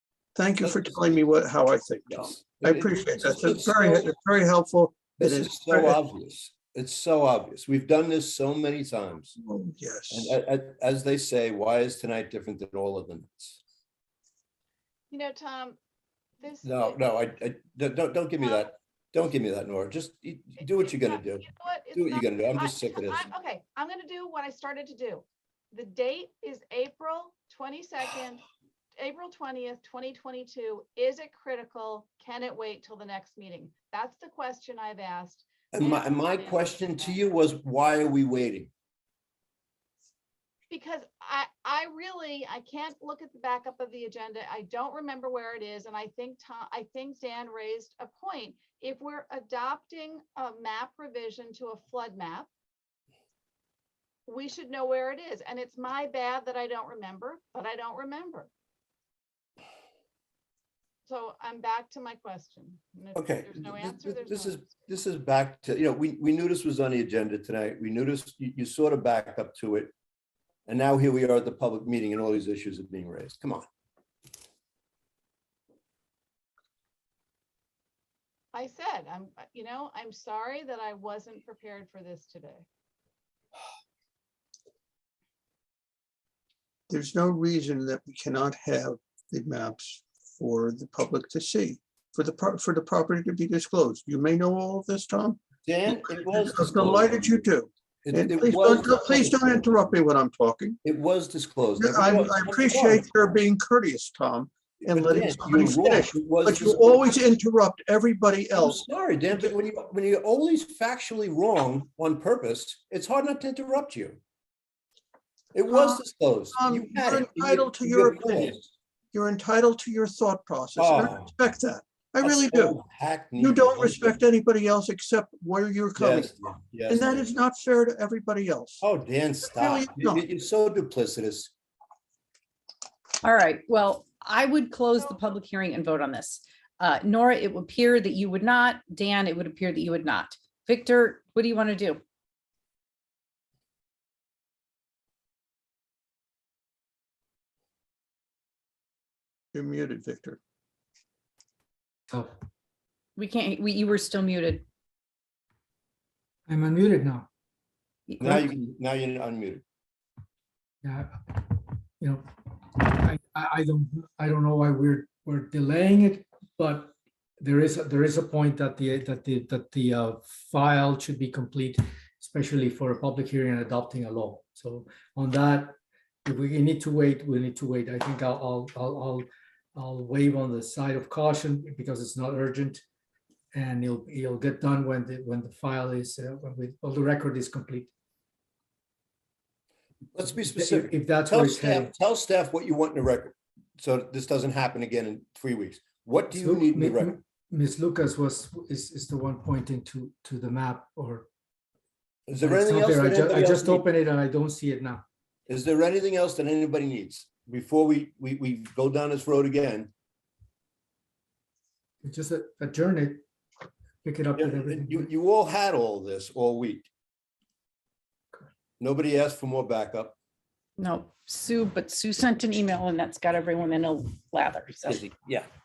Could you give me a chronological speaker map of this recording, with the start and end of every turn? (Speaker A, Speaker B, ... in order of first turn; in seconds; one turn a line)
Speaker A: 0.4-6.0
Speaker B: 0.6-0.9
Speaker B: 2.1-4.1
Speaker B: 5.2-9.3
Speaker A: 9.4-10.3
Speaker B: 10.1-13.6
Speaker C: 15.1-15.8
Speaker C: 16.4-17.0
Speaker B: 16.6-23.3
Speaker C: 20.6-28.4
Speaker C: 29.0-37.2
Speaker B: 35.7-38.7
Speaker C: 40.7-52.5
Speaker C: 54.3-58.5
Speaker C: 61.1-64.9
Speaker B: 63.1-69.9
Speaker B: 70.7-73.7
Speaker C: 78.5-82.7
Speaker A: 86.9-100.8
Speaker B: 95.7-97.4
Speaker B: 98.0-99.5
Speaker B: 100.8-103.1
Speaker A: 101.8-108.8
Speaker B: 104.8-107.2
Speaker B: 108.6-114.2
Speaker B: 115.5-118.7
Speaker A: 115.7-116.0
Speaker A: 116.5-118.6
Speaker A: 119.1-122.8
Speaker B: 120.8-121.3
Speaker B: 122.2-124.2
Speaker A: 123.4-126.3
Speaker B: 126.0-127.1
Speaker A: 126.9-128.8
Speaker B: 128.8-131.5
Speaker A: 129.4-130.2
Speaker D: 133.2-142.0
Speaker C: 135.0-135.3
Speaker A: 149.5-150.4
Speaker D: 153.2-154.7
Speaker E: 156.5-157.3
Speaker D: 158.1-158.3
Speaker B: 158.2-159.6
Speaker E: 160.8-162.2
Speaker E: 162.8-182.8
Speaker E: 183.5-187.9
Speaker B: 190.2-197.1
Speaker E: 190.3-191.9
Speaker E: 196.3-201.3
Speaker B: 202.3-203.8
Speaker E: 202.4-205.0
Speaker B: 205.5-209.9
Speaker E: 212.0-213.2
Speaker E: 214.0-215.1
Speaker B: 214.4-216.9
Speaker B: 218.8-220.2
Speaker D: 220.8-225.1
Speaker B: 224.8-225.5